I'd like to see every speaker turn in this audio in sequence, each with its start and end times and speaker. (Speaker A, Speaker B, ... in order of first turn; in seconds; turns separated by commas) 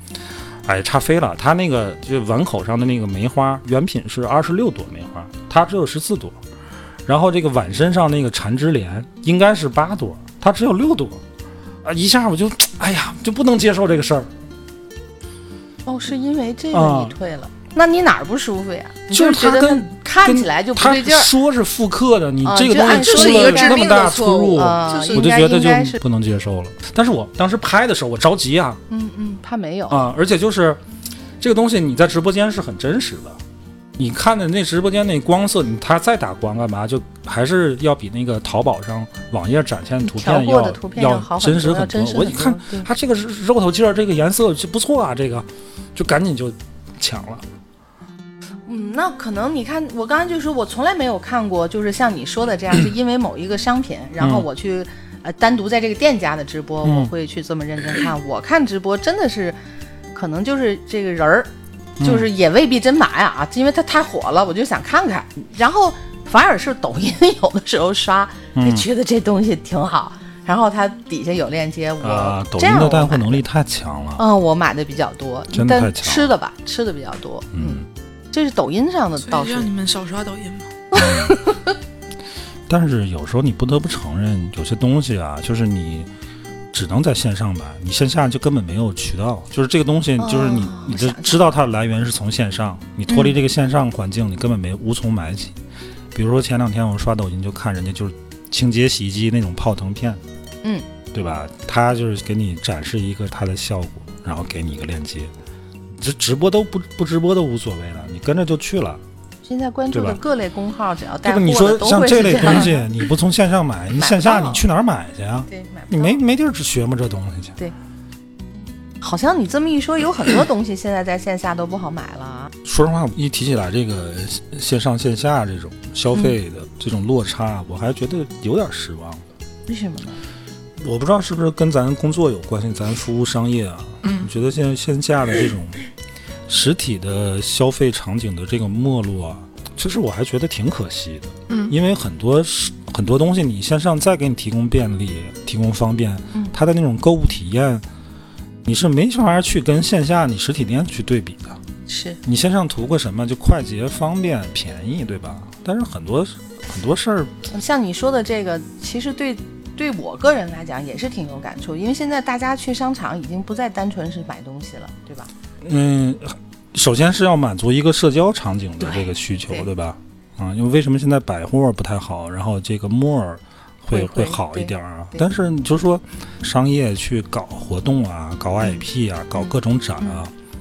Speaker A: 0.6-6.4, Speaker A: 7.1-11.2, Speaker A: 11.8-14.3, Speaker B: 15.8-21.3, Speaker A: 16.7-17.2, Speaker A: 19.1-28.8, Speaker B: 22.4-23.9, Speaker C: 22.8-25.4, Speaker B: 24.5-26.0, Speaker B: 28.9-30.1, Speaker A: 29.9-30.8, Speaker A: 31.4-33.4, Speaker A: 34.0-47.4, Speaker B: 40.0-42.9, Speaker B: 48.7-59.6, Speaker A: 54.2-54.5, Speaker A: 56.8-57.1, Speaker B: 60.1-61.5, Speaker A: 62.0-62.3, Speaker B: 62.0-73.4, Speaker A: 68.5-68.9, Speaker A: 72.0-74.2, Speaker B: 74.2-79.7, Speaker A: 75.5-76.3, Speaker A: 77.5-77.8, Speaker C: 79.2-80.8, Speaker B: 80.9-81.7, Speaker A: 80.9-81.3, Speaker A: 82.7-86.1, Speaker A: 86.7-95.5, Speaker B: 90.2-91.5, Speaker B: 93.1-93.4, Speaker A: 96.1-100.2, Speaker A: 101.1-105.3, Speaker A: 105.9-109.0, Speaker B: 109.5-112.9, Speaker A: 109.9-110.2, Speaker A: 111.2-117.5, Speaker B: 114.0-114.7, Speaker B: 115.5-116.2, Speaker B: 119.0-122.5, Speaker A: 122.6-129.2, Speaker B: 129.7-130.2, Speaker A: 130.8-135.8, Speaker C: 134.0-134.3, Speaker A: 136.5-147.8, Speaker C: 141.5-141.7, Speaker A: 148.6-151.6, Speaker B: 151.9-152.2, Speaker A: 152.2-157.3, Speaker B: 157.5-165.3, Speaker A: 165.6-180.3, Speaker B: 168.8-169.7, Speaker B: 173.9-175.2, Speaker B: 179.3-180.2